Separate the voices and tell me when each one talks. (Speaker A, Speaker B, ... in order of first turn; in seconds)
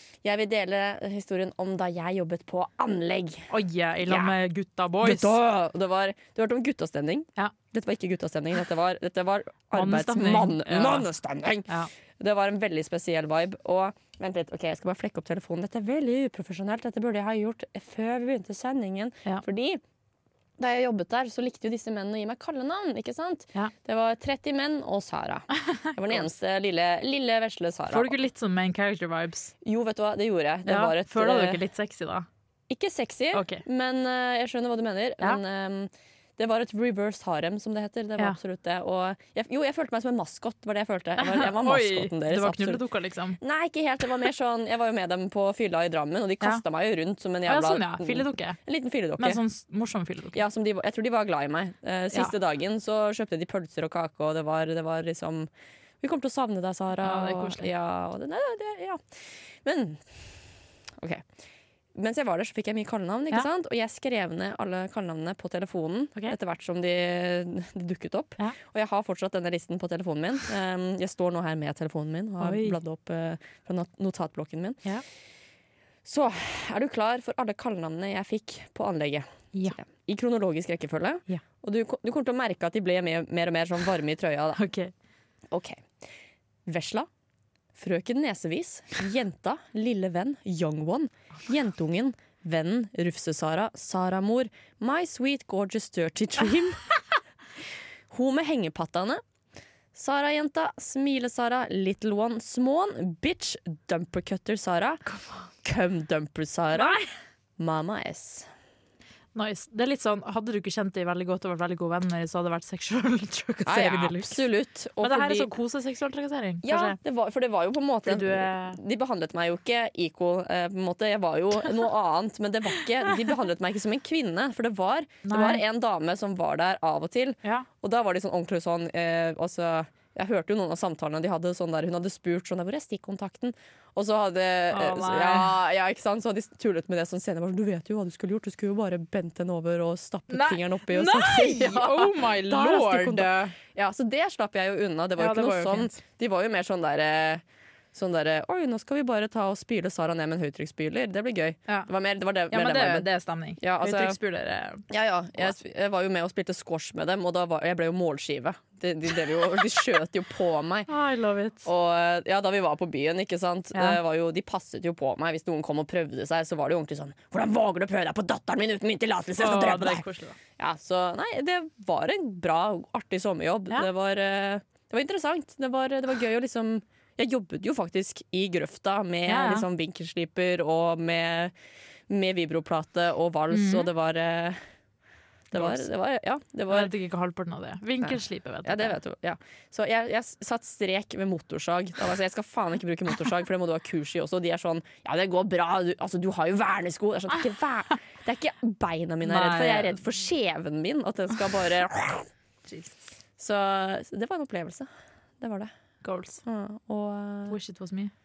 Speaker A: 0.2-3.5, 4.0-4.3, 5.0-11.7, 12.2-19.8, 20.6-28.2, 29.6-31.6, 32.7-42.8, 43.4-49.4, 50.3-55.5, 56.0-60.2, 61.0-61.2, 61.9-74.8, 76.0-84.6, 85.5-85.9, 86.7-87.1, 87.8-96.9, 98.1-99.2, 99.9-105.0, 105.6-107.0, 107.6-108.5, 113.7-115.5, 116.6-154.2, 154.9-160.9, 161.6-170.0, 170.6-181.5, 182.1-184.6, 185.5-186.9, 188.0-202.3, 203.4-204.9, 205.4-205.7, 206.4-207.6
Speaker B: 3.5-5.4, 9.7-11.1, 27.9-29.5, 30.7-32.3, 33.3-33.6, 41.2-43.4, 47.5-48.6, 49.2-50.4, 57.0-57.7, 72.4-72.8, 84.6-84.9, 105.1-105.5, 106.7-107.1, 109.3-114.5, 115.0-117.0, 118.1-118.8, 125.2-125.6, 134.7-135.6, 140.3-143.5, 145.2-146.0, 152.5-154.8, 160.9-161.7, 169.4-170.4, 179.3-179.7, 183.5-183.9, 185.5-185.8, 186.7-189.0, 199.2-200.0, 202.7-203.0, 206.0-206.4, 207.5-208.1